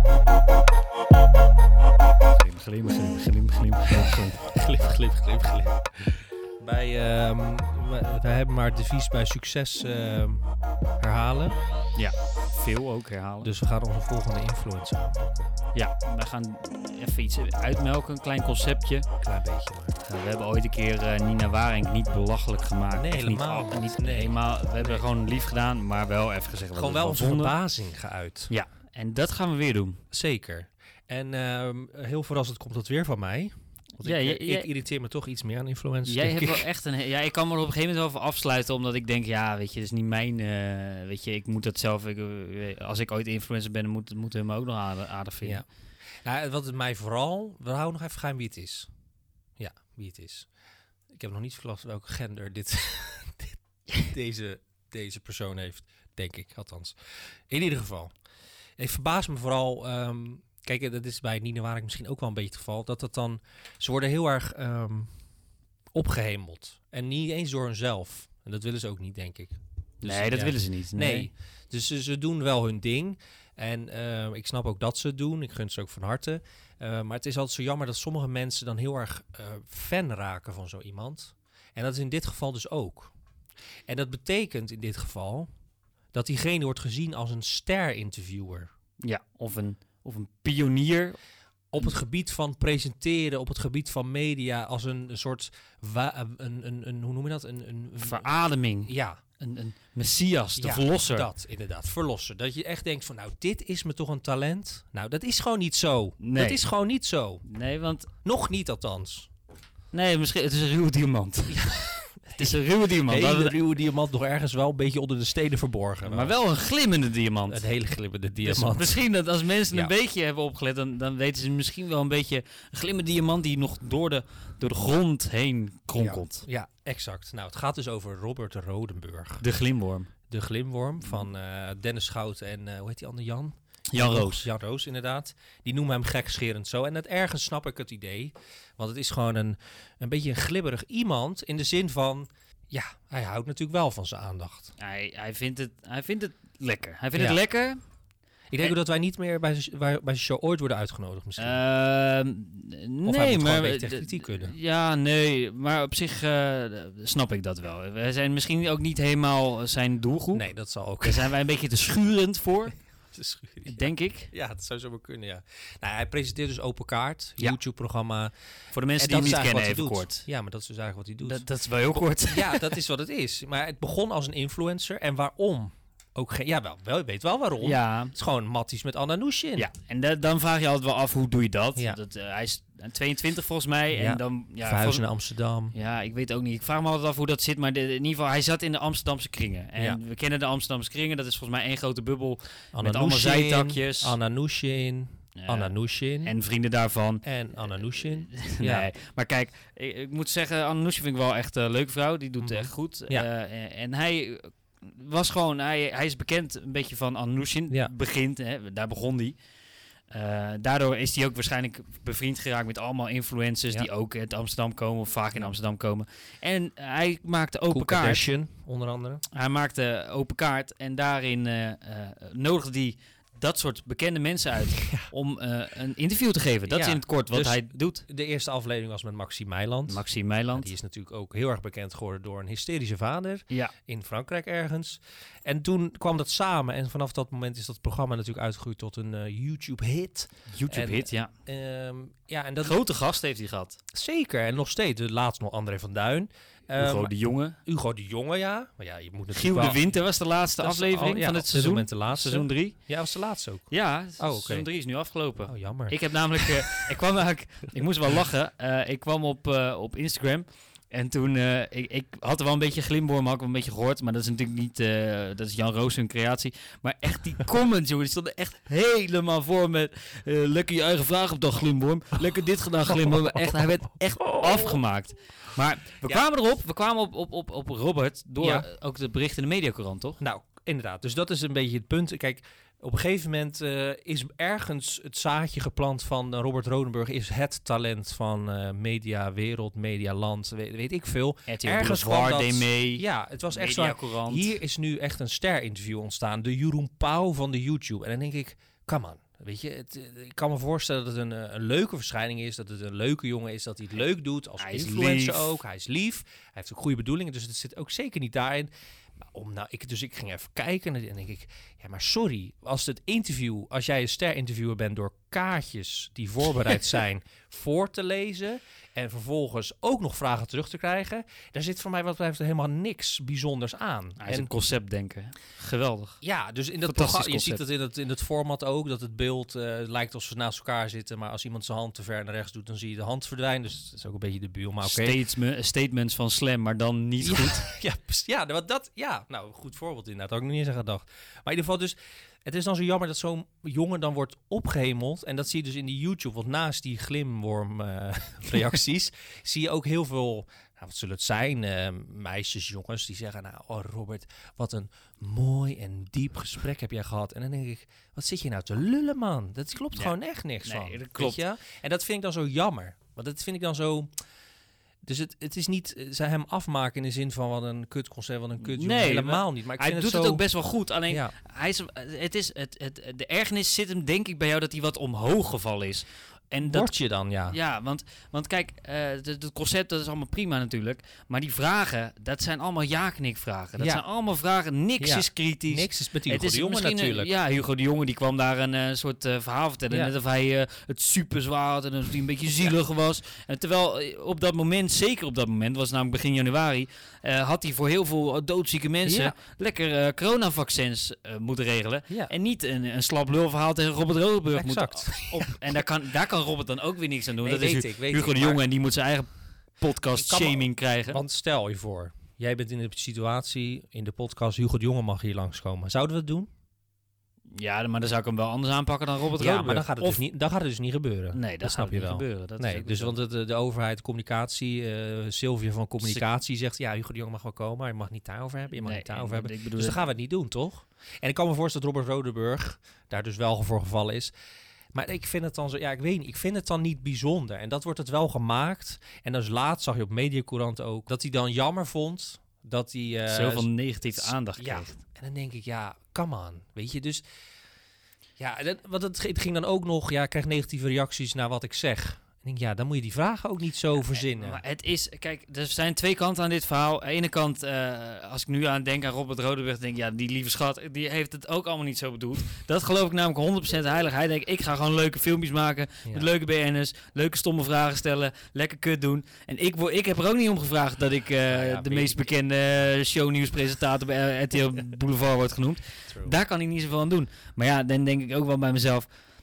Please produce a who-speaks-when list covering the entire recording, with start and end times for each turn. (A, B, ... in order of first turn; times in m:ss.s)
0:02.4-0:04.4 A
0:04.4-0:10.5 B
0:11.0-0:11.6 B
0:11.9-0:13.5 A
0:13.4-0:15.5 B
0:15.7-0:19.1 A
0:19.2-0:20.0 B
0:20.0-0:27.6 A
0:22.9-0:25.0 B
0:26.7-0:28.5 B
0:28.5-0:30.0 A
0:30.1-0:36.7 B
0:34.0-0:34.7 A
0:36.0-0:45.6 A
0:46.2-0:48.9 B
0:49.6-0:50.5 B
0:51.1-0:57.0 B
0:57.5-0:58.1 B
0:58.8-1:05.1 B
1:05.9-1:23.1 B
1:10.0-1:11.3 A
1:23.9-1:25.5 B
1:26.1-1:28.7 B
1:29.0-1:31.2 A
1:31.7-1:38.3 B
1:38.0-1:41.3 A
1:38.8-1:39.2 B
1:40.6-1:47.4 B
1:46.2-1:46.6 A
1:47.4-1:48.1 A
1:48.2-1:49.3 B
1:49.9-1:51.8 A
1:51.5-1:56.4 B
1:52.4-1:53.6 A
1:56.0-1:57.7 A
1:57.5-1:59.0 B
1:58.4-2:06.4 A
2:06.0-2:09.4 B
2:09.4-2:10.1 A
2:10.3-2:24.7 B
2:13.9-2:14.5 A
2:24.8-2:27.8 A
2:27.1-2:27.4 B
2:28.5-2:31.6 B
2:31.4-2:40.4 A
2:33.0-2:34.5 B
2:40.3-2:41.3 B
2:41.0-2:42.8 A
2:43.1-2:48.3 B
2:43.7-2:44.3 A
2:48.7-2:50.2 A
2:49.0-2:59.7 B
2:51.2-2:52.8 A
2:57.6-2:58.1 A
2:59.6-3:05.0 A
3:03.9-3:05.7 B
3:05.7-3:14.2 A
3:12.7-3:16.3 B
3:15.4-3:29.4 A
3:17.2-3:18.9 B
3:22.4-3:23.3 B
3:30.1-3:38.2 A
3:37.7-3:39.2 B
3:39.3-3:48.0 A
3:44.8-3:45.1 B
3:46.7-4:02.8 B
3:49.9-3:50.7 A
4:00.5-4:01.3 A
4:02.6-4:03.8 A
4:03.9-4:09.8 B
4:06.8-4:07.6 A
4:09.3-4:12.8 A
4:10.6-4:14.7 B
4:13.7-4:40.2 A
4:15.4-4:16.8 B
4:38.4-4:38.7 B
4:40.2-5:08.7 B
4:51.5-4:54.6 A
5:04.6-5:05.5 A
5:09.3-5:24.5 B
5:24.2-5:26.2 A
5:26.2-5:35.2 B
5:26.8-5:27.6 A
5:34.8-5:37.6 A
5:37.2-6:04.1 B
5:59.9-6:01.4 A
6:05.0-6:10.5 B
6:08.6-6:16.9 A
6:11.1-6:11.3 B
6:16.6-6:17.6 B
6:17.5-6:51.2 A
6:23.8-6:24.0 B
6:25.0-6:27.3 B
6:39.0-6:39.3 B
6:44.5-6:45.8 B
6:47.4-6:48.6 B
6:50.1-6:56.5 B
6:57.6-7:00.2 A
6:59.4-7:14.3 B
7:01.3-7:03.2 A
7:06.0-7:06.2 A
7:08.8-7:10.0 A
7:14.9-7:27.2 B
7:23.2-7:24.9 A
7:28.4-7:34.6 B
7:34.0-7:59.1 A
7:46.0-7:46.3 B
7:51.4-7:52.3 B
7:56.1-7:56.4 B